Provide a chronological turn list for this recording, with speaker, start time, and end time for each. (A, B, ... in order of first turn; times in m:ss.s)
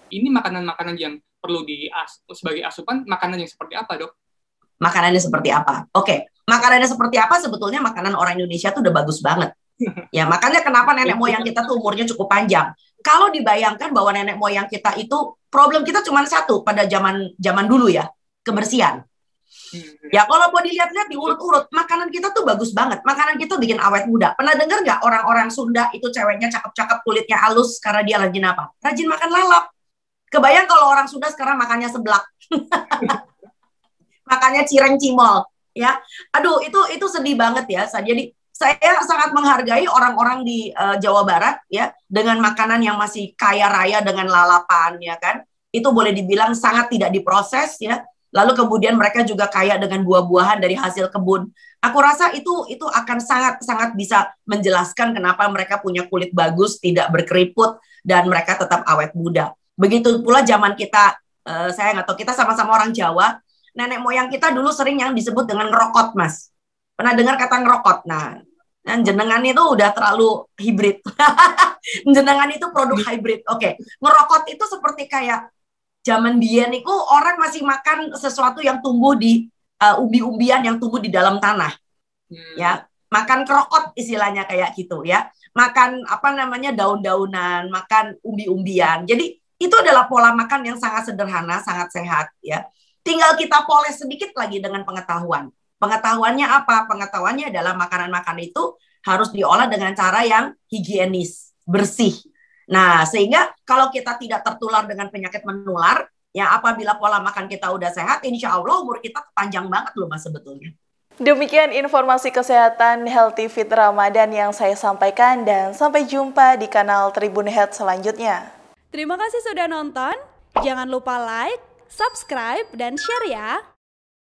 0:00.1-0:04.1 A
0:04.8-0:09.5 B
0:10.1-0:19.0 B
0:19.7-0:20.2 A
0:20.1-0:29.6 B
0:30.3-0:33.2 B
0:34.3-1:06.5 B
1:07.0-1:08.3 B
1:08.9-1:15.4 B
1:16.0-1:21.7 B
1:22.3-1:22.8 A
1:22.6-1:42.1 B
1:42.7-1:50.7 B
1:51.2-1:58.4 C
1:58.9-2:03.6 D